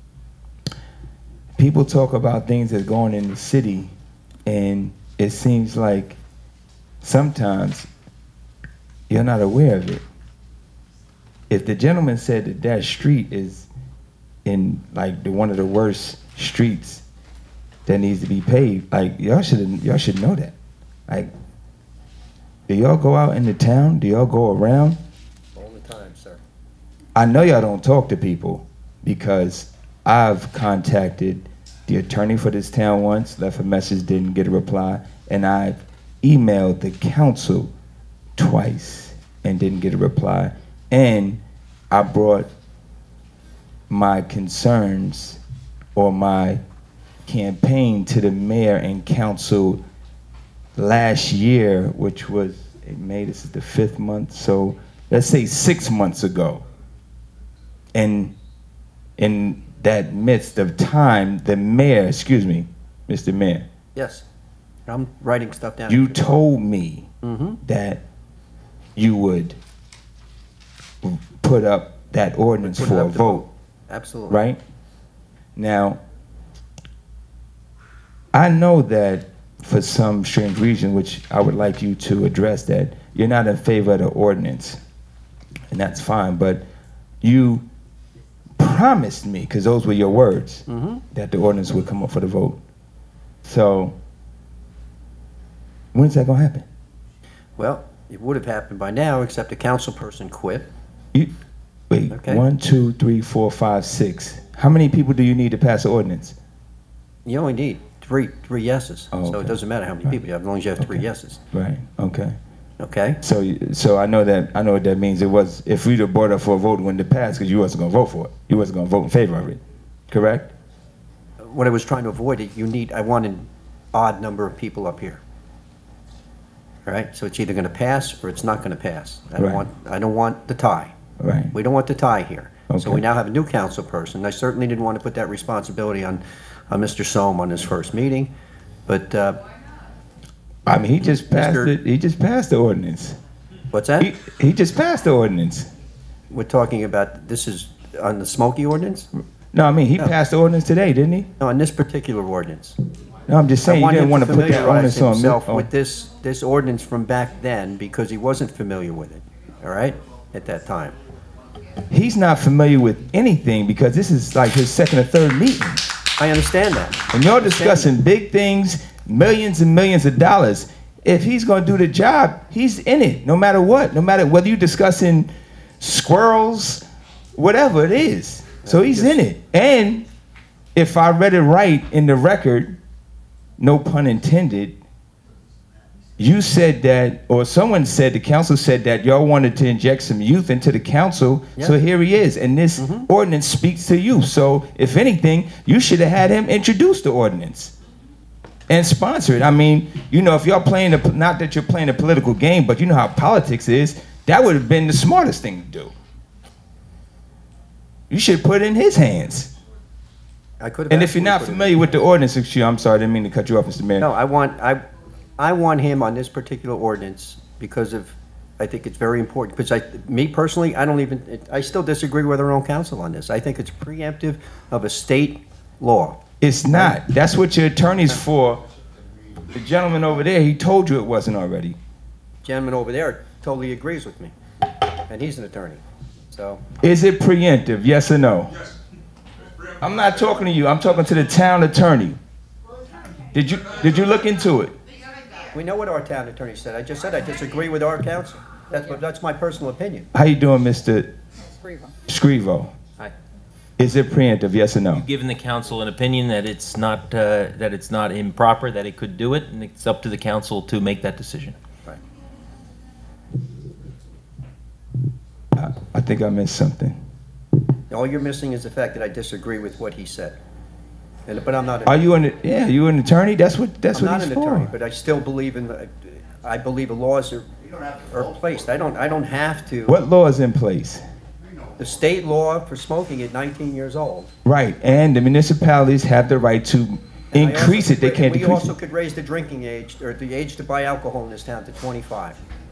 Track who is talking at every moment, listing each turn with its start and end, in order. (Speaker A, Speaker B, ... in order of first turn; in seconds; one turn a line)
Speaker A: 1.6-3.9
Speaker A: 4.5-6.2
Speaker A: 7.0-7.9
Speaker A: 9.1-10.0
Speaker A: 11.5-13.7
Speaker A: 14.4-17.0
Speaker A: 17.9-20.5
Speaker A: 22.7-25.0
Speaker B: 25.5-26.4
Speaker A: 27.1-37.7
Speaker A: 38.4-42.5
Speaker A: 43.9-45.4
Speaker A: 45.9-46.6
Speaker A: 47.2-49.8
Speaker A: 50.8-56.6
Speaker A: 57.9-58.3
Speaker A: 59.2-63.6
Speaker B: 63.9-64.2
Speaker B: 64.9-66.4
Speaker A: 65.9-67.1
Speaker B: 67.2-67.6
Speaker A: 67.6-68.0
Speaker A: 69.0-69.6
Speaker A: 71.0-73.4
Speaker B: 72.6-74.4
Speaker A: 74.3-74.6
Speaker A: 75.5-76.0
Speaker A: 78.3-84.8
Speaker A: 85.7-86.6
Speaker A: 87.2-87.6
Speaker A: 88.6-92.6
Speaker B: 90.7-91.0
Speaker A: 93.4-93.9
Speaker A: 95.9-96.7
Speaker B: 97.6-100.7
Speaker A: 101.9-106.4
Speaker B: 102.1-102.4
Speaker B: 107.2-111.4
Speaker A: 109.1-109.5
Speaker A: 110.8-112.4
Speaker B: 112.8-113.2
Speaker A: 113.2-120.5
Speaker B: 121.4-125.2
Speaker B: 126.8-130.9
Speaker A: 131.2-131.5
Speaker B: 131.5-138.3
Speaker A: 132.7-133.0
Speaker B: 138.9-139.4
Speaker A: 140.7-143.2
Speaker B: 141.2-141.7
Speaker B: 143.7-144.1
Speaker A: 144.0-145.7
Speaker B: 146.3-149.1
Speaker A: 149.5-151.3
Speaker B: 151.4-152.8
Speaker A: 153.3-155.7
Speaker B: 153.6-160.9
Speaker A: 161.9-165.9
Speaker B: 166.2-167.9
Speaker A: 167.1-176.8
Speaker A: 177.3-180.0
Speaker B: 178.6-179.2
Speaker A: 180.7-182.8
Speaker A: 183.6-184.8
Speaker A: 186.2-197.7
Speaker B: 192.8-193.1
Speaker A: 198.7-205.9
Speaker A: 208.1-209.5
Speaker B: 210.6-212.0
Speaker A: 210.9-214.1
Speaker B: 214.0-214.8
Speaker B: 215.4-226.2
Speaker A: 226.4-228.6
Speaker A: 229.5-231.8
Speaker B: 232.4-234.3
Speaker B: 235.1-236.6
Speaker A: 236.8-238.6
Speaker A: 239.8-242.2
Speaker A: 243.3-244.7
Speaker B: 245.5-250.1
Speaker A: 250.1-251.1
Speaker A: 252.1-252.7
Speaker A: 253.8-255.0
Speaker C: 254.9-261.6
Speaker A: 265.6-266.9
Speaker B: 267.9-270.4
Speaker B: 271.3-272.0
Speaker A: 271.9-274.7
Speaker B: 273.9-279.9
Speaker A: 279.9-281.0
Speaker B: 281.8-284.3
Speaker A: 284.4-288.7
Speaker B: 287.3-292.4